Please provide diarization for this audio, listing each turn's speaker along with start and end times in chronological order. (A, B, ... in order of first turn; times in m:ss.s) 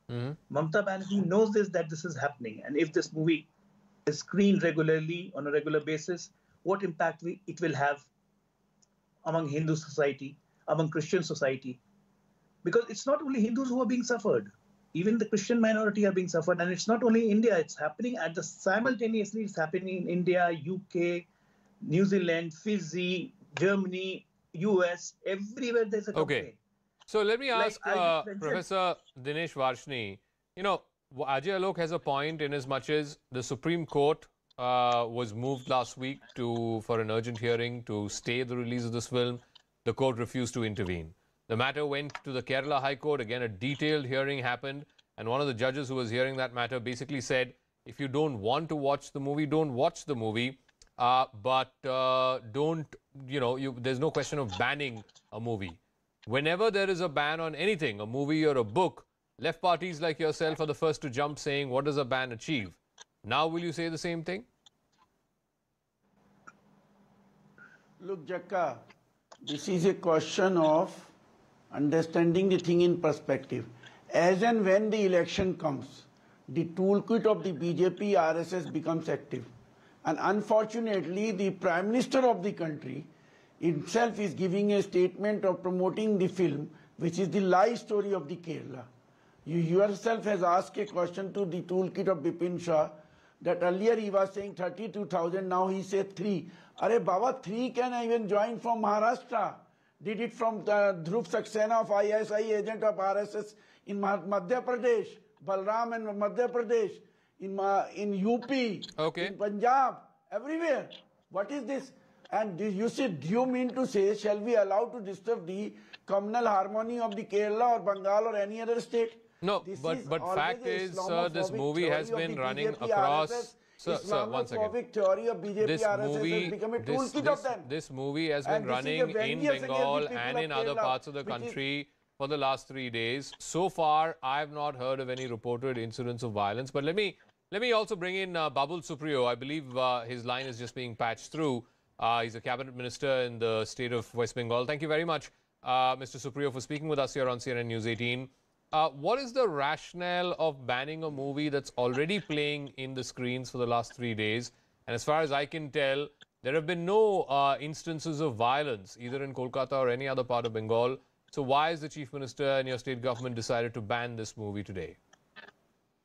0:00.1-0:00.4 A
0:00.5-0:03.5 B
0:04.0-0:08.1 B
0:09.2-0:11.8 B
0:12.6-0:21.2 B
0:21.8-0:26.6 B
0:26.1-0:26.5 A
0:27.1-1:04.4 A
0:27.5-0:28.6 B
1:08.0-1:08.8 C
1:09.4-1:11.1 C
1:11.7-1:19.5 C
1:20.0-1:23.1 C
1:23.6-1:28.9 C
1:29.4-2:07.7 C
1:49.0-1:49.3 A
1:59.4-2:04.8 A
2:05.6-2:45.0 A
2:08.4-2:11.6 C